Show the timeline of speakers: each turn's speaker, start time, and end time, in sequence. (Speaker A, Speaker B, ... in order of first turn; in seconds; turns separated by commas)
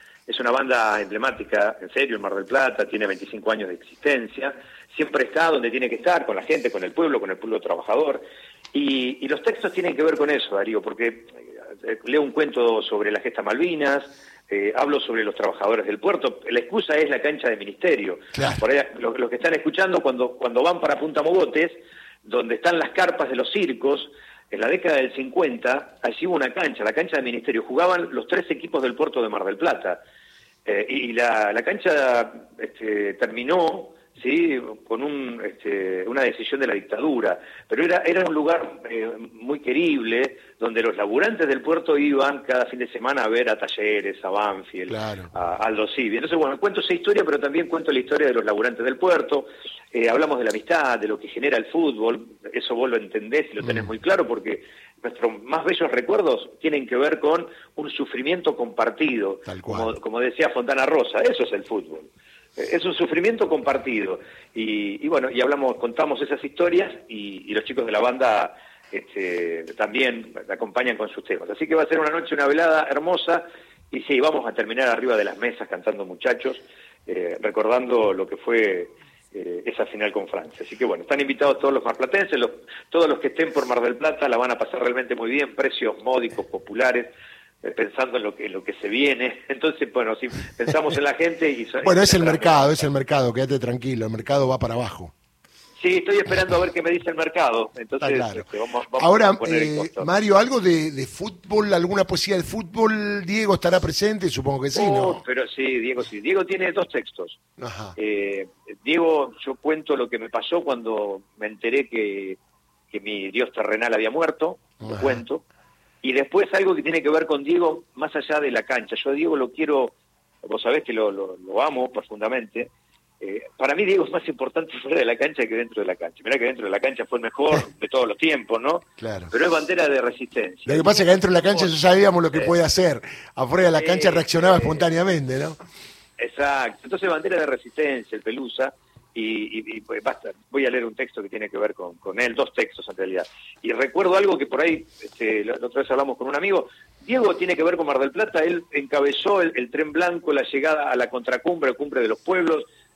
Speaker A: 0.3-30.0, Speaker B: 18.3-18.6, Speaker A: 30.7-87.1, Speaker B: 44.9-45.3, Speaker B: 53.6-53.9, Speaker B: 59.5-59.9, Speaker A: 87.6-92.8, Speaker B: 91.8-95.1, Speaker A: 95.8-100.1, Speaker B: 98.0-105.2, Speaker A: 104.7-107.4, Speaker B: 107.6-108.0, Speaker A: 108.0-112.4, Speaker A: 112.9-115.4, Speaker B: 114.8-115.2, Speaker A: 116.0-122.7, Speaker A: 123.2-131.7, Speaker B: 129.0-129.3, Speaker B: 130.7-135.6, Speaker A: 133.7-134.8, Speaker A: 136.2-152.7